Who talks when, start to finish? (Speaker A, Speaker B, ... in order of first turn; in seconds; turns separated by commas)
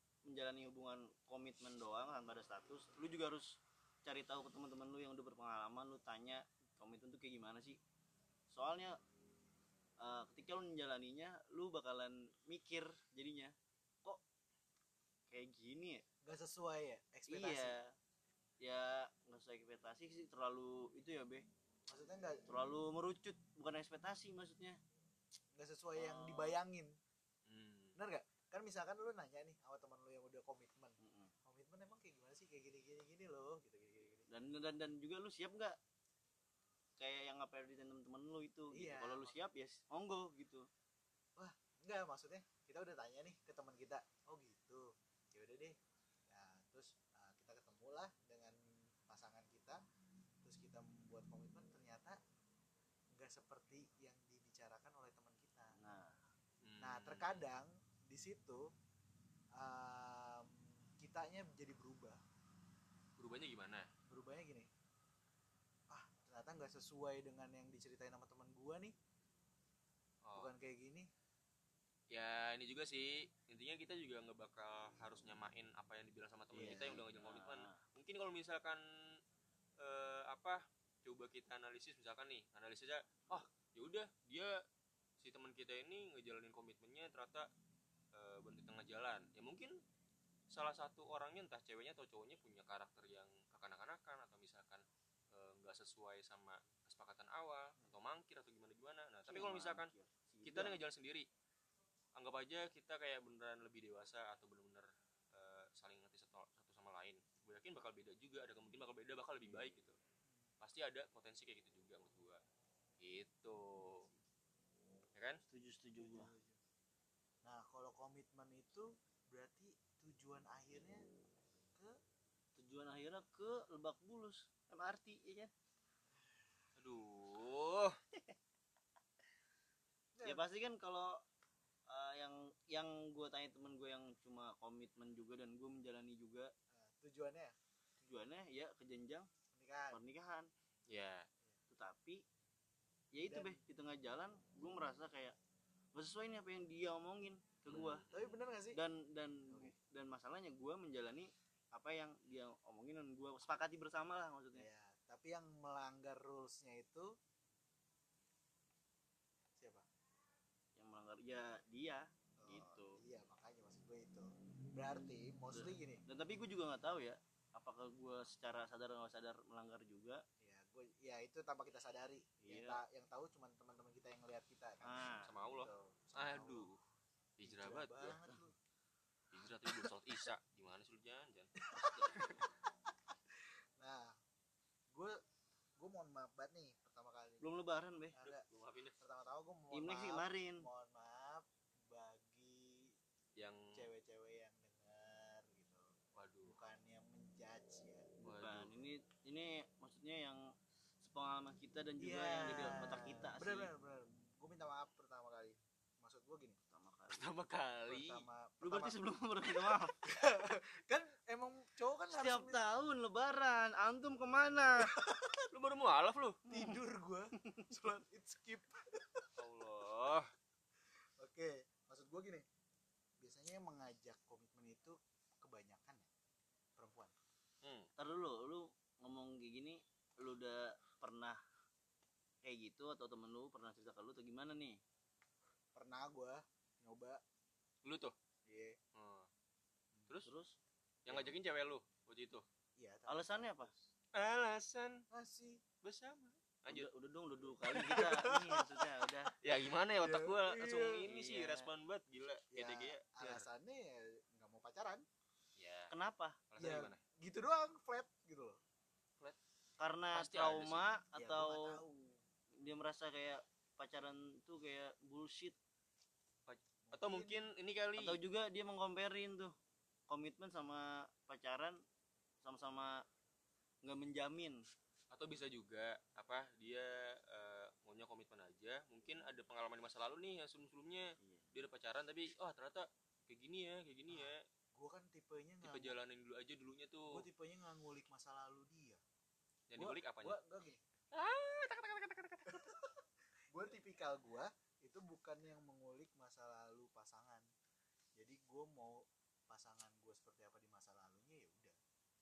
Speaker A: 0.3-7.8, Speaker A: 8.5-9.0, Speaker A: 10.0-14.2, Speaker A: 15.3-16.0, Speaker B: 16.2-17.8, Speaker A: 17.3-17.9, Speaker A: 18.6-21.4, Speaker B: 21.9-22.5, Speaker A: 22.5-24.8, Speaker B: 25.5-27.0, Speaker A: 26.0-26.5, Speaker C: 27.4-28.0, Speaker B: 28.0-34.3, Speaker A: 31.0-31.3, Speaker A: 34.3-35.8, Speaker A: 37.0-40.7, Speaker B: 38.7-39.4, Speaker B: 41.4-45.8, Speaker B: 46.3-49.8, Speaker B: 50.4-52.2, Speaker B: 53.1-55.7, Speaker A: 55.8-56.2, Speaker C: 56.6-57.4, Speaker B: 56.8-58.7, Speaker B: 59.5-62.2, Speaker C: 63.2-63.9, Speaker B: 64.1-64.7, Speaker B: 65.9-68.9, Speaker C: 70.2-70.5, Speaker B: 70.3-71.1, Speaker C: 72.1-79.2, Speaker B: 76.5-77.0, Speaker A: 76.5-77.8, Speaker C: 79.8-84.6, Speaker C: 85.2-87.5, Speaker C: 88.1-89.8, Speaker C: 90.5-99.9, Speaker A: 99.3-100.8, Speaker C: 100.4-101.3, Speaker C: 102.1-110.0, Speaker C: 110.6-112.4, Speaker C: 113.0-114.1, Speaker C: 115.1-115.4, Speaker A: 115.5-116.3, Speaker B: 116.0-116.6, Speaker B: 117.4-121.0, Speaker A: 122.5-125.5, Speaker C: 126.8-128.0, Speaker B: 130.1-130.4, Speaker A: 130.2-131.2, Speaker A: 131.9-136.5, Speaker B: 136.7-137.6, Speaker A: 138.0-139.3, Speaker B: 139.5-140.0, Speaker A: 139.9-140.5, Speaker C: 140.9-141.3, Speaker A: 141.7-142.2, Speaker A: 143.1-145.3, Speaker B: 143.2-143.6, Speaker A: 145.9-148.0, Speaker C: 147.7-148.3, Speaker B: 148.1-148.8, Speaker A: 148.7-154.7, Speaker B: 149.5-149.7, Speaker B: 154.5-157.2, Speaker B: 159.6-159.8, Speaker A: 160.8-163.0, Speaker B: 162.4-166.0, Speaker A: 165.5-170.2, Speaker B: 170.4-176.7, Speaker A: 172.4-172.8, Speaker A: 174.8-175.3, Speaker C: 175.2-176.8, Speaker C: 177.4-178.2, Speaker B: 177.4-178.6, Speaker C: 179.3-181.6, Speaker B: 181.7-182.4, Speaker C: 182.1-182.4, Speaker B: 183.4-184.2, Speaker B: 184.9-185.2, Speaker B: 185.8-187.4, Speaker A: 187.4-188.1, Speaker B: 188.1-188.4, Speaker C: 188.2-188.9, Speaker B: 189.0-192.9, Speaker A: 189.7-190.7, Speaker C: 193.4-193.8, Speaker B: 193.7-195.9, Speaker C: 196.2-196.6, Speaker B: 196.4-198.1, Speaker A: 198.2-200.4, Speaker C: 198.2-198.7, Speaker A: 201.0-203.7, Speaker B: 202.0-206.6, Speaker A: 206.7-207.2, Speaker C: 207.1-208.2, Speaker B: 207.9-209.0, Speaker A: 208.6-209.9, Speaker B: 210.0-212.6, Speaker A: 212.1-214.9, Speaker B: 214.9-215.4, Speaker C: 215.5-216.4, Speaker B: 216.5-219.3, Speaker C: 219.4-220.3, Speaker B: 221.2-222.4, Speaker B: 223.2-226.1, Speaker B: 226.8-227.1, Speaker C: 227.6-227.9, Speaker A: 228.0-231.4, Speaker A: 232.4-234.8, Speaker B: 235.7-237.2, Speaker C: 237.8-238.1, Speaker B: 238.4-238.8, Speaker C: 238.9-239.3, Speaker A: 240.2-240.6, Speaker C: 241.0-242.4, Speaker B: 241.1-241.3, Speaker B: 242.8-243.9, Speaker A: 243.1-243.7, Speaker C: 244.1-245.0, Speaker B: 245.1-245.6, Speaker C: 245.8-246.9, Speaker A: 246.7-249.3, Speaker B: 247.9-249.3, Speaker C: 249.4-253.4, Speaker B: 250.0-251.1, Speaker A: 251.1-251.7, Speaker B: 252.5-255.0, Speaker C: 255.6-255.9, Speaker A: 255.9-256.4, Speaker C: 256.5-257.0, Speaker B: 256.6-258.6, Speaker A: 259.8-261.8, Speaker C: 260.1-260.8, Speaker B: 261.1-262.2, Speaker A: 262.6-265.6, Speaker C: 266.5-268.2, Speaker B: 266.9-267.4, Speaker A: 268.0-269.5, Speaker A: 270.1-271.8, Speaker A: 272.4-273.0, Speaker A: 273.8-274.6, Speaker C: 275.1-284.4, Speaker A: 281.2-281.5, Speaker B: 284.1-286.0, Speaker C: 285.6-287.2, Speaker B: 287.1-289.0, Speaker C: 289.7-290.4, Speaker B: 289.8-290.8, Speaker C: 291.1-292.6, Speaker B: 292.5-297.5, Speaker B: 298.1-301.8